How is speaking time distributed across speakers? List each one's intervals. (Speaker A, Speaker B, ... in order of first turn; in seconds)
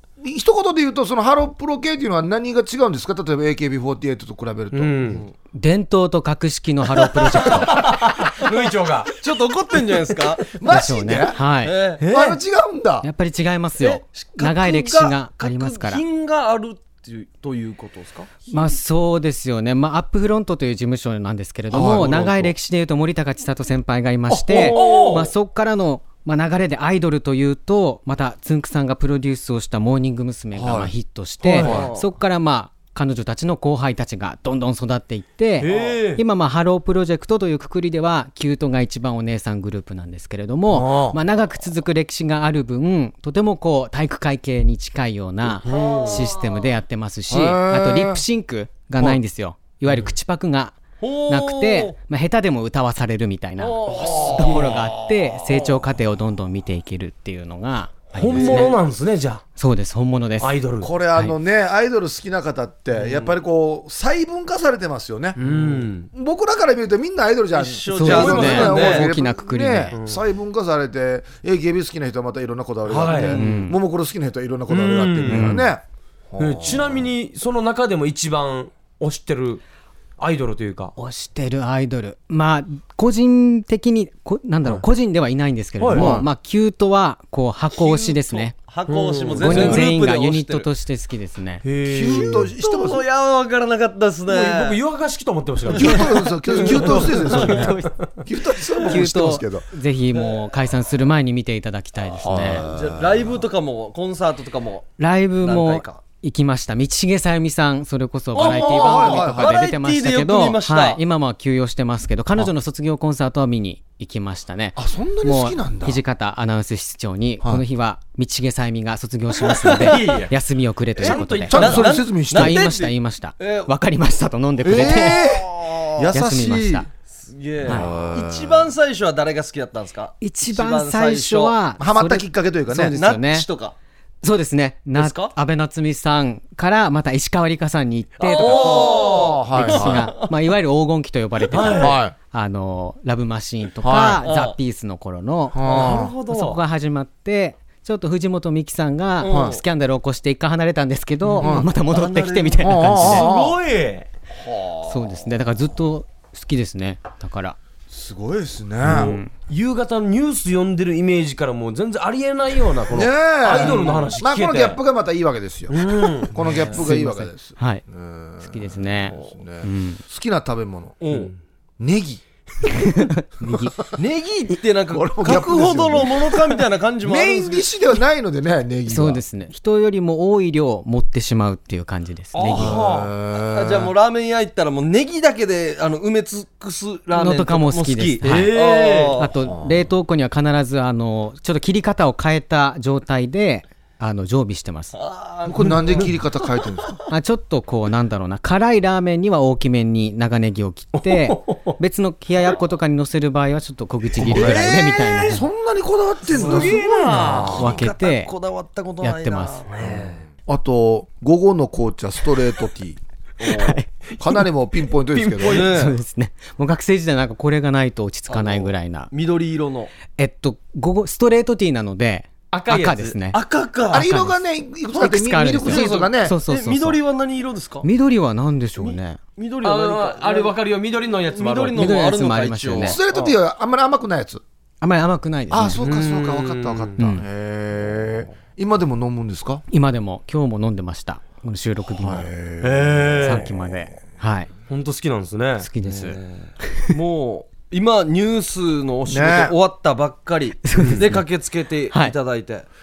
Speaker A: 0.2-5.2, 10.6-11.4, 12.0-13.1, 21.7-22.5, 24.3-24.8, 30.6-30.9, 31.5-31.9, 40.7-41.2, 47.3-48.2, 53.9-54.8, 58.3-58.7, 60.8-77.1, 85.9-86.3, 89.5-89.8, 91.9-93.0, 95.7-99.7, 102.2-103.4, 108.4-109.6, 114.8-116.0, 121.0-122.6, 124.6-126.9, 127.6-128.7, 131.8-133.0, 138.5-140.1, 141.7-142.1, 143.8-144.2, 145.5-146.1, 149.2-149.6, 151.4-151.7, 152.6-153.6, 154.4-155.1, 157.9-159.2, 162.9-171.0, 171.8-172.2, 173.5-173.9, 174.9-176.5, 177.0-179.2, 182.5-183.9, 189.4-189.9, 195.5-197.0, 204.2-207.8, 209.8-213.0, 214.2-215.7, 223.9-226.4, 232.8-234.4, 235.5-239.6, 241.9-243.7, 249.1-249.6
Speaker B: 4.7-5.2, 7.5-9.1, 12.0-12.4, 24.6-25.3, 31.5-31.8, 35.6-36.2, 58.1-59.4, 60.4-60.9, 65.4-66.1, 68.0-69.0, 69.9-70.2, 72.9-73.5, 74.7-75.7, 76.4-79.6, 80.2-80.9, 85.8-86.2, 88.9-89.9, 91.6-92.5, 94.3-97.5, 119.7-120.3, 121.0-121.8, 138.4-138.9, 141.5-141.9, 145.7-146.6, 151.2-151.5, 152.8-154.1, 158.8-164.8, 165.7-166.7, 182.3-183.1, 188.2-189.2, 200.9-201.8, 204.2-205.2, 206.3-207.7, 209.8-210.0, 215.1-215.6, 222.5-223.2, 229.6-231.9, 235.8-237.1, 242.6-243.5, 244.7-245.7
Speaker C: 5.5-7.9, 10.7-11.8, 13.0-16.0, 18.5-50.8, 51.3-58.7, 59.6-60.5, 67.9-70.0, 73.2-73.8, 75.3-75.7, 81.0-88.5, 89.4-91.6, 96.8-98.0, 98.8-102.7, 105.0-125.4, 126.1-126.9, 127.7-127.9, 130.2-133.5, 134.2-153.3, 154.9-157.6, 158.8-159.3, 166.7-167.8, 168.4-170.0, 172.7-173.8, 178.9-182.8, 187.1-188.5, 189.2-195.0, 197.1-205.5, 207.4-208.3, 209.0-209.6, 213.4-214.0, 215.6-219.1, 220.1-224.4, 224.9-227.0, 227.8-229.2, 231.7-233.0, 234.8-235.8, 237.0-237.2, 239.7-242.3, 243.2-244.5, 245.6-246.2, 250.6-251.2
Speaker D: 7.4-10.5, 11.6-12.0, 13.8-18.3, 24.5-25.2, 31.6-32.1, 35.6-36.0, 45.7-46.7, 51.0-52.0, 53.6-54.8, 63.0-63.3, 67.5-69.1, 87.7-90.7, 92.1-94.8, 96.5-97.6, 102.6-104.9, 105.4-106.0, 108.3-111.0, 119.6-120.3, 121.0-123.7, 124.7-126.0, 127.1-131.6, 132.9-133.8, 134.9-135.3, 138.2-140.3, 141.5-141.9, 144.2-144.6, 145.7-146.1, 149.2-149.6, 151.9-152.7, 163.5-164.1, 166.5-166.8, 171.0-171.3, 173.9-177.7, 183.5-189.3, 194.9-196.2, 206.3-210.1, 213.4-213.8, 215.4-216.0, 218.3-219.9, 223.3-224.1, 225.6-227.9, 228.8-230.6, 231.3-233.3, 245.8-252.7